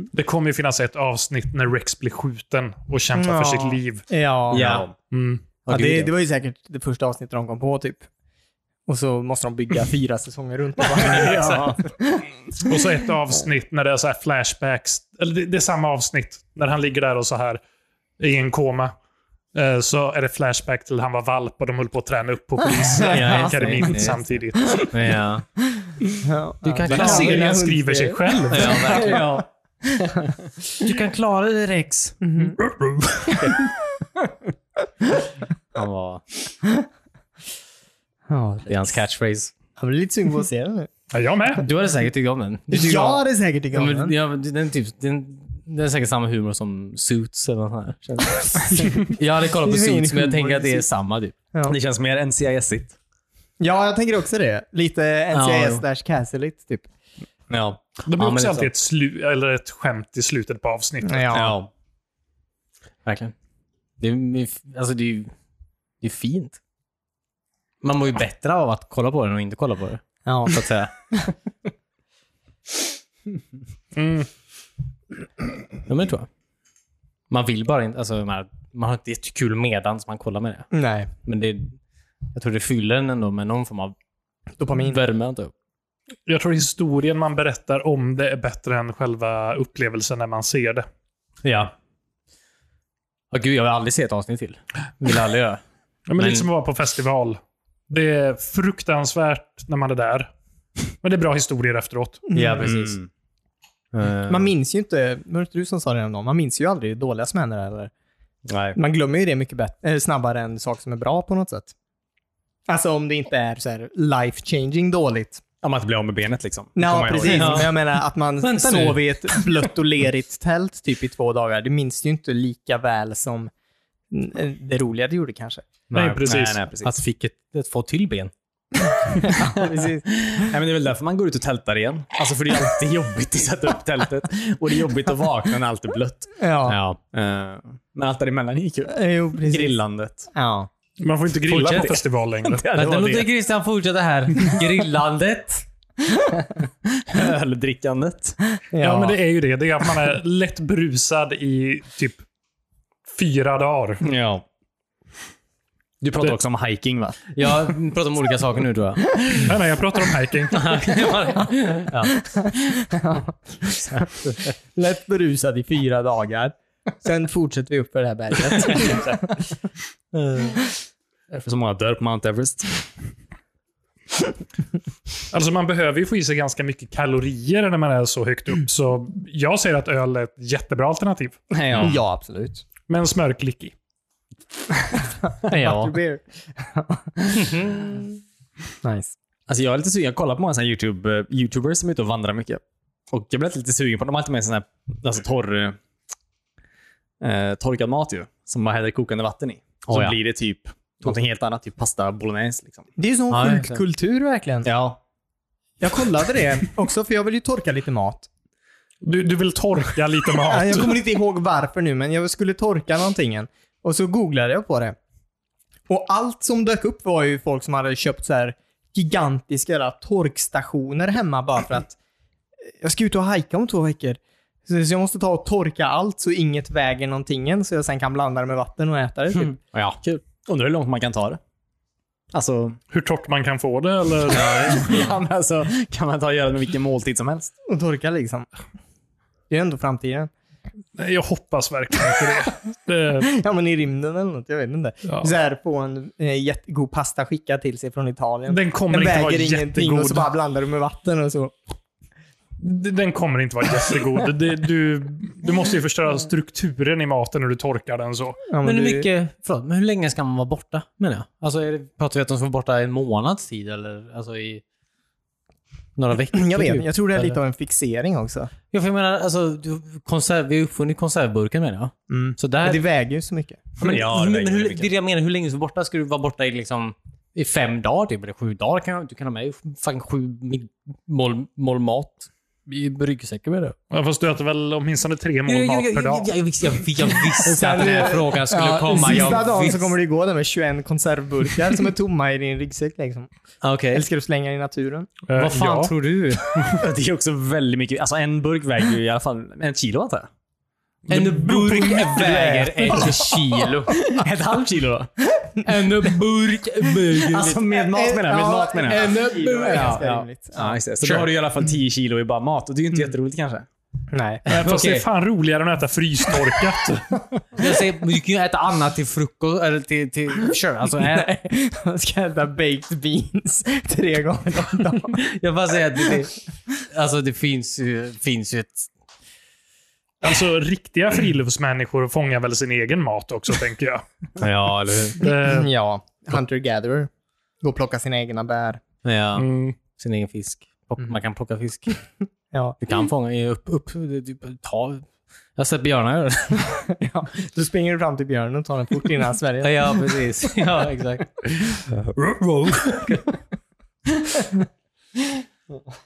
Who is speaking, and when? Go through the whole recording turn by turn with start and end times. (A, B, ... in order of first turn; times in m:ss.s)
0:00.1-0:04.0 A
0:03.1-0:04.7 B
0:04.5-0:04.9 C
0:04.5-0:04.9 D
0:05.1-0:05.4 A
0:05.6-0:08.1 B
0:05.7-0:06.1 D
0:08.9-0:12.3 B
0:11.0-0:11.8 D
0:12.6-0:17.6 A
0:18.2-0:18.9 A
0:19.5-0:24.8 A
0:23.0-0:24.2 D
0:24.7-0:25.5 D
0:26.2-0:29.4 B
0:26.6-0:27.5 D
0:26.8-0:29.1 A
0:28.5-0:29.4 D
0:30.8-0:32.2 D
0:32.2-0:32.6 B
0:32.7-0:33.5 A
0:35.7-0:36.2 D
0:38.3-0:39.0 B
0:38.7-0:39.5 D
0:39.8-0:40.9 B
0:41.1-0:41.7 A
0:41.6-0:51.3 D
0:42.7-0:44.1 B
0:48.4-0:50.9 B
0:51.7-0:53.0 C
0:53.6-0:56.9 B
0:55.3-0:55.8 D
0:57.5-0:57.8 C
0:58.1-1:01.3 A
0:58.2-0:58.7 D
1:01.0-1:01.6 B
1:01.3-1:01.7 C
1:03.0-1:03.3 D
1:04.0-1:05.3 D
1:06.0-1:06.6 D
1:07.8-1:10.9 D
1:10.2-1:10.6 B
1:13.9-1:14.3 A
1:15.9-1:16.3 D
1:17.3-1:21.8 D
1:20.7-1:21.1 B
1:22.3-1:23.9 D
1:24.6-1:25.0 B
1:24.8-1:25.5 D
1:26.3-1:30.8 A
1:31.4-1:31.7 D
1:33.3-1:35.6 D
1:36.1-1:40.3 A
1:36.2-1:36.5 D
1:41.0-1:42.2 A
1:42.3-1:42.7 B
1:42.3-1:43.0 D
1:42.6-1:43.1 C
1:43.9-1:44.5 D
1:44.3-1:47.9 B
1:48.4-1:48.8 C
1:48.7-1:51.7 B
1:52.7-1:55.4 B
1:55.6-1:57.7 C
1:56.7-2:03.5 B
1:57.2-1:57.7 D
1:58.4-1:59.4 D
2:04.1-2:05.6 B
2:05.9-2:08.3 D
2:05.9-2:06.6 A
2:06.2-2:06.9 C
2:09.2-2:10.4 B
2:10.4-2:16.4 C
2:16.4-2:16.8 B
2:16.7-2:17.0 D
2:17.1-2:20.3 C
2:18.9-2:19.8 B
2:20.3-2:20.7 B
2:21.0-2:22.6 A
2:21.4-2:23.3 C
2:22.7-2:25.6 D
2:27.1-2:28.4 C
2:28.7-2:29.2 B
2:28.8-2:32.2 A
2:33.1-2:34.0 A
2:34.0-2:34.4 C
2:36.0-2:37.3 C
2:37.3-2:39.5 D
2:39.4-2:40.9 A
2:40.5-2:42.3 D
2:42.4-2:44.0 B
2:43.9-2:44.5 D
2:44.7-2:49.2 B
2:50.1-2:50.7 D
2:51.3-2:52.7 C
2:55.3-3:01.4 A
3:01.5-3:02.0 C
3:01.8-3:02.6 B
3:02.9-3:03.7 A
3:05.5-3:05.9 D
3:05.5-3:07.8 B
3:07.4-3:07.9 D
3:08.8-3:09.1 B
3:09.5-3:15.8 C
3:17.2-3:22.8 C
3:19.9-3:20.2 D
3:23.0-3:24.7 B
3:23.3-3:23.8 D
3:24.6-3:25.0 C
3:25.8-3:28.3 B
3:29.0-3:31.0 A
3:30.5-3:35.0 B
3:35.9-3:42.0 B
3:42.7-3:49.6 B
3:49.6-3:51.4 C
3:52.3-3:52.8 C
3:52.9-3:55.0 A
3:54.3-3:55.1 D
3:54.3-3:57.5 C
3:57.6-3:58.5 B
3:59.5-4:00.3 B
4:01.0-4:03.3 A
4:03.3-4:11.5 B
4:05.0-4:05.3 A
4:08.5-4:10.2 A
4:12.6-4:18.4 A
4:18.5-4:19.1 B
4:18.6-4:24.6 D
4:26.0-4:27.4 D
4:26.3-4:28.5 B
4:28.7-4:32.8 D
4:32.1-4:33.6 B
4:33.8-4:34.9 C
4:33.8-4:43.7 D
4:43.9-4:46.3 A
4:45.5-4:49.9 D
4:47.4-4:53.3 B
4:53.6-4:54.1 D
4:53.9-4:55.1 B
4:55.3-4:55.9 A
4:55.3-4:56.7 D
4:56.8-5:00.3 C
5:01.1-5:02.3 A
5:01.1-5:04.2 D
5:02.0-5:03.5 B
5:04.1-5:05.1 C
5:05.6-5:07.6 D
5:07.1-5:10.0 C
5:07.7-5:10.8 B
5:08.8-5:10.2 D
5:10.5-5:13.7 C
5:11.0-5:11.3 D
5:14.1-5:14.4 B
5:14.5-5:15.0 D
5:14.5-5:17.1 A
5:17.5-5:21.3 D
5:21.1-5:25.2 B
5:25.2-5:28.9 D
5:30.2-5:34.0 A
5:34.4-5:35.2 D
5:35.2-5:35.7 A
5:35.2-5:37.1 B
5:37.6-5:38.8 B
5:39.0-5:42.0 D
5:39.4-5:39.8 A
5:42.8-5:46.7 D
5:46.9-5:50.0 B
5:49.6-5:51.8 D